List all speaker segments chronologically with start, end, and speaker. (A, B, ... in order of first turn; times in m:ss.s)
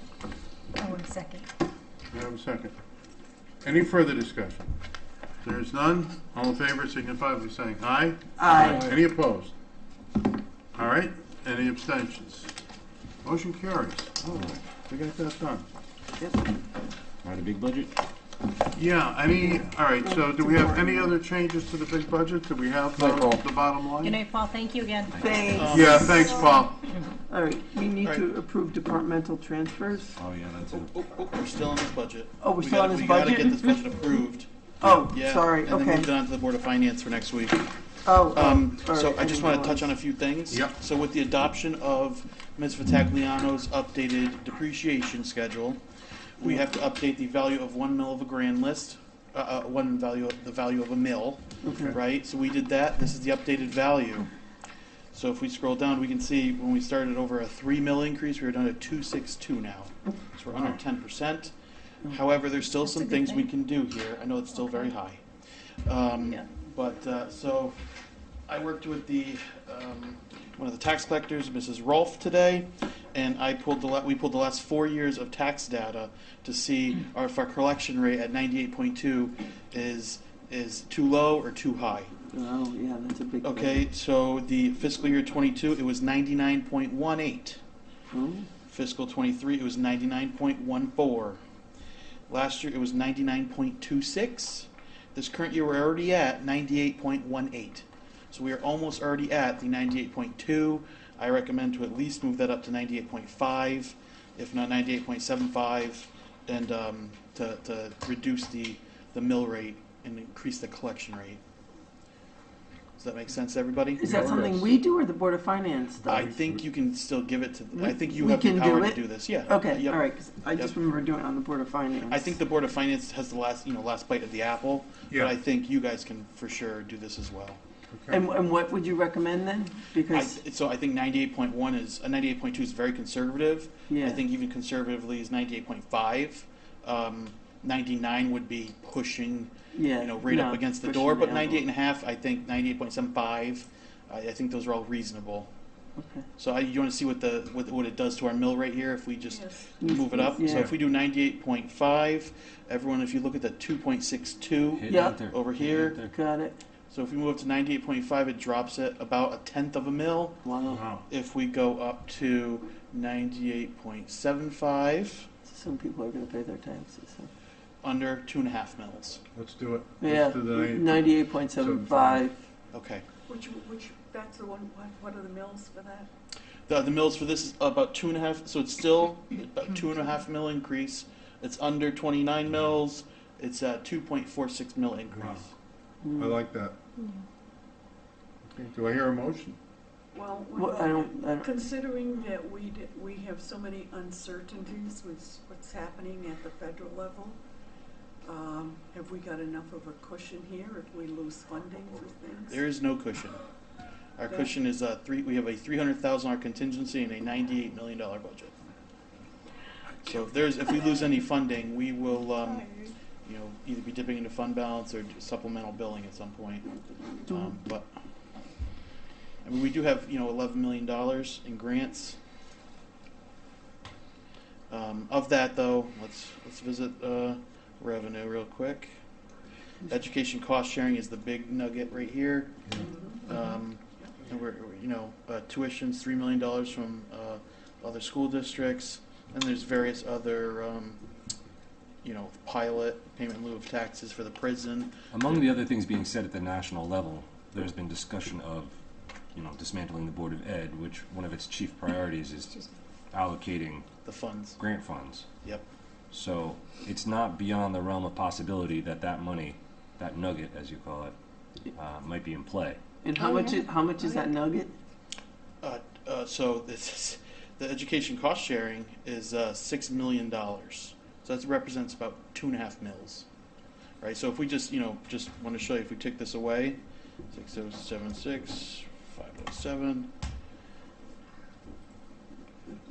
0:00.8-0:01.4 A
0:02.1-0:02.7 B
0:03.6-0:04.7 B
0:05.4-0:09.5 B
0:08.4-0:08.9 C
0:10.7-0:12.5 B
0:13.2-0:15.6 B
0:16.2-0:16.5 C
0:17.2-0:17.9 D
0:18.7-0:24.2 B
0:19.4-0:21.1 C
0:24.0-0:25.3 A
0:25.2-0:25.9 C
0:25.5-0:26.5 E
0:25.6-0:26.9 B
0:27.3-0:30.2 C
0:28.0-0:28.2 E
0:30.2-0:31.0 D
0:30.7-0:37.7 E
0:32.4-0:33.8 C
0:34.8-0:36.1 C
0:38.0-0:39.9 C
0:38.2-0:45.8 E
0:46.4-0:54.3 E
0:46.4-0:46.7 C
0:51.6-0:52.0 C
0:55.1-1:01.5 E
1:00.5-1:00.8 B
1:02.0-1:05.2 E
1:02.8-1:03.5 A
1:04.5-1:04.8 A
1:05.8-1:07.8 E
1:08.5-1:22.1 E
1:22.3-1:23.8 C
1:23.4-1:27.6 E
1:28.1-1:28.5 C
1:28.7-1:31.4 E
1:32.3-1:51.4 E
1:53.0-1:54.5 E
1:54.0-1:56.3 C
1:56.0-2:00.0 E
1:57.7-2:02.3 C
2:02.1-2:07.6 E
2:07.9-2:08.2 B
2:08.1-2:10.4 C
2:10.1-2:25.5 E
2:13.9-2:14.2 C
2:19.7-2:21.6 C
2:26.0-2:26.2 C
2:26.4-2:36.0 E
2:29.4-2:29.6 F
2:29.8-2:30.7 C
2:34.7-2:36.1 D
2:34.9-2:35.2 C
2:36.1-2:36.6 C
2:36.9-2:40.5 E
2:40.4-2:40.8 C
2:40.7-2:41.0 B
2:41.1-2:45.3 E
2:45.4-2:47.3 C
2:47.8-2:49.2 E
2:49.3-2:52.2 B
2:50.0-2:52.3 C
2:52.7-2:53.0 E
2:53.3-2:54.3 F
2:55.7-2:56.1 F
2:56.7-3:05.5 E
3:05.1-3:05.4 B
3:06.0-3:06.4 C
3:06.2-3:06.8 B
3:08.5-3:09.6 B
3:10.1-3:17.4 F
3:10.6-3:11.6 C
3:18.2-3:22.6 F
3:22.5-3:23.4 E
3:24.2-3:28.5 E
3:30.0-3:32.7 E
3:33.2-3:36.6 E
3:37.2-3:37.5 C
3:37.3-3:37.9 E
3:39.4-3:42.2 E
3:44.7-3:48.9 E
3:49.9-4:01.0 E
4:02.0-4:05.4 E
4:05.1-4:08.7 D
4:09.3-4:13.9 D
4:14.0-4:14.6 E
4:14.6-4:15.3 D
4:16.1-4:21.1 D
4:21.7-4:22.8 D
4:23.0-4:24.7 C
4:23.2-4:24.2 A
4:25.6-4:33.3 E
4:34.0-4:36.8 E
4:37.3-4:40.1 E